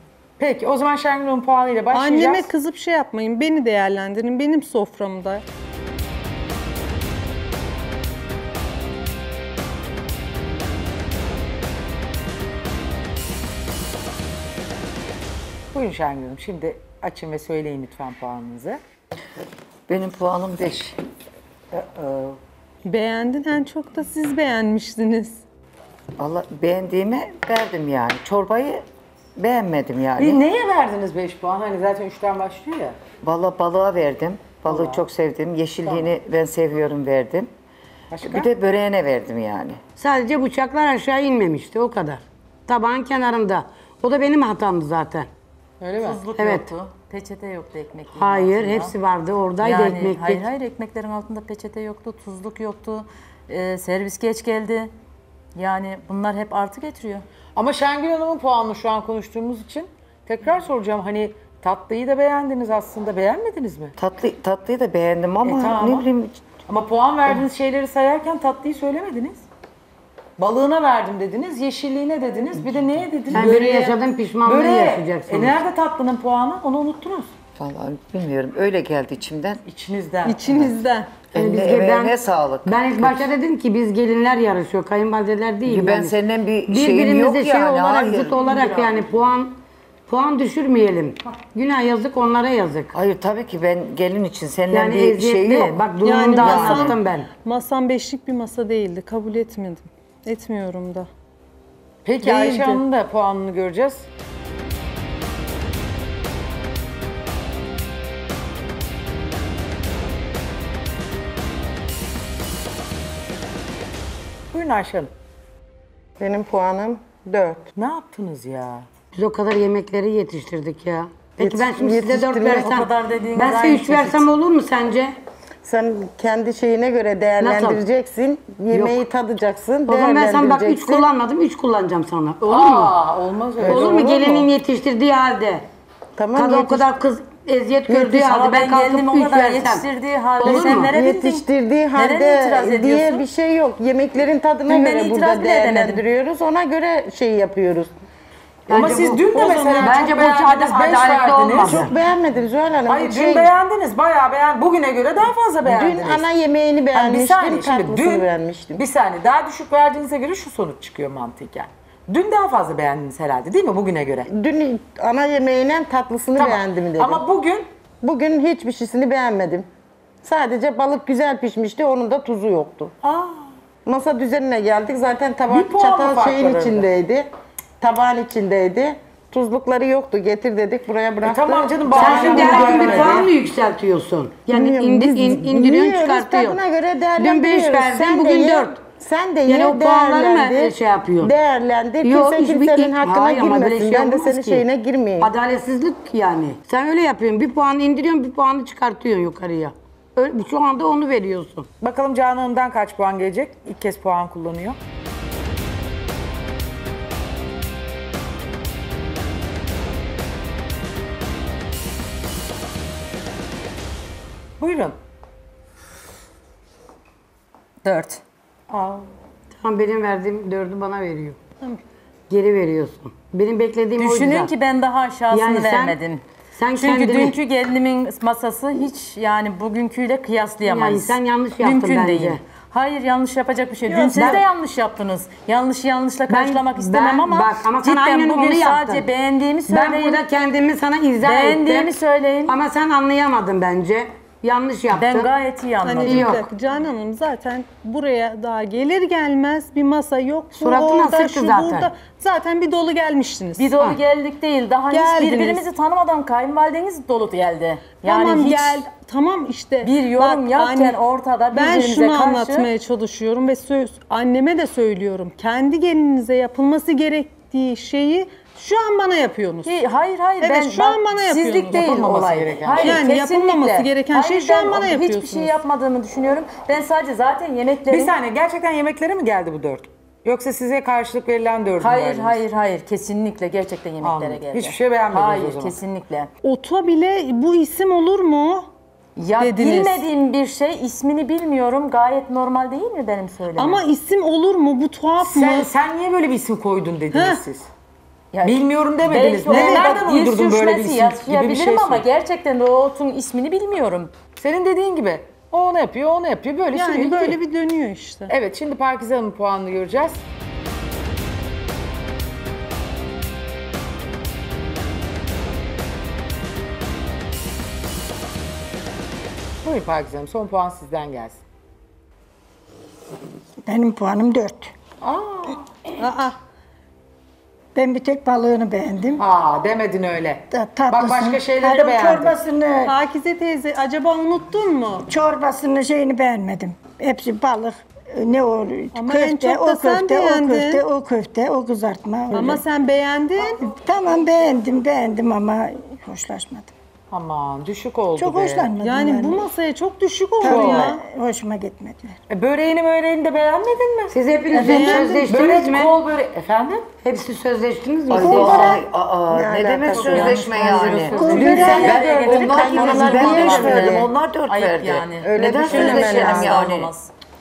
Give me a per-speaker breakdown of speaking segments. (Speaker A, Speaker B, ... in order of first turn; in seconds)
Speaker A: 0.4-2.5, 15.7-18.8, 21.7-22.4, 30.2-33.0, 34.7-35.0, 38.1-38.5, 45.8-46.2, 57.6-64.0, 65.4-66.1, 66.7-69.4, 70.4-73.8, 74.4-77.3, 79.7-80.8, 102.0-104.1, 114.5-115.1, 117.8-118.9, 132.4-134.5, 148.7-151.9, 152.9-156.3, 156.9-158.3, 158.8-164.3, 166.4-167.7, 175.5-176.9, 181.2-183.3, 201.8-204.8, 214.6-215.0, 218.7-219.0, 271.7-273.1, 277.9-282.4, 284.0-285.8, 295.2-297.7, 298.4-302.0, 304.4-307.4, 308.3-310.2, 319.6-321.4, 325.0-325.7, 329.2-332.4, 342.3-342.6, 347.1-348.8, 350.4-350.9, 352.3-354.1, 354.8-356.9, 361.3-362.0
Speaker B: 1.9-5.4, 22.9-25.4, 73.3-74.0, 80.2-81.2, 96.0-101.1, 102.2-102.8, 173.0-173.5, 233.9-234.3, 245.8-253.9, 254.9-255.6, 258.0-261.0, 261.5-269.8, 270.4-272.1, 272.8-275.6, 286.4-288.7, 289.4-290.0, 293.6-295.7, 297.1-297.4, 299.5-299.9, 306.7-308.3, 326.0-326.4, 332.9-335.1, 338.9-340.8, 342.3-343.8, 348.8-351.0, 354.5-355.4, 360.3-360.9
Speaker C: 19.9-21.0, 26.2-28.9, 29.4-30.4, 33.2-37.5, 38.2-39.8, 64.0-66.4, 77.6-79.6, 81.3-83.3, 85.7-88.5, 92.9-97.0, 358.1-366.9
Speaker D: 40.0-45.3, 46.4-46.6, 48.1-50.5, 73.3-75.5, 81.3-86.2, 86.7-92.9, 94.7-97.3, 119.1-125.1, 127.4-127.8, 128.7-129.0, 129.9-132.9, 133.6-135.7, 136.3-139.9, 140.4-141.0, 148.7-151.9, 181.9-186.6, 187.2-188.8, 189.5-191.3, 192.0-194.6, 195.2-201.7, 219.5-221.4, 222.3-224.5, 225.3-226.0, 226.6-227.4, 230.6-232.4, 234.2-234.4, 236.3-239.1, 239.7-241.9, 242.5-245.3, 246.1-246.4, 250.5-251.9, 354.1-355.9, 357.0-358.9
Speaker E: 46.0-49.0, 49.6-54.9, 55.5-57.2, 122.5-124.3, 138.1-143.3, 144.7-146.0, 217.8-218.2, 224.0-226.2, 226.7-240.2, 241.2-242.6, 244.9-246.4, 253.6-258.8, 259.8-262.7, 269.6-278.1, 281.8-286.3, 289.2-293.8, 298.3-304.1, 359.9-367.1
Speaker F: 116.2-117.7, 121.4-122.8, 125.6-131.1, 133.6-134.5, 136.2-136.9, 137.9-138.3, 140.4-147.9, 151.6-153.5, 155.7-158.8, 164.3-167.2, 168.0-169.7, 170.2-173.0, 173.9-177.3, 177.8-183.2, 184.5-195.3, 358.1-358.7, 359.3-364.1, 365.4-366.6
Speaker G: 323.6-324.7, 327.8-329.2, 330.5-332.9, 335.1-342.6, 343.8-346.7, 348.2-349.4, 350.4-352.2, 354.5-355.2, 361.1-361.9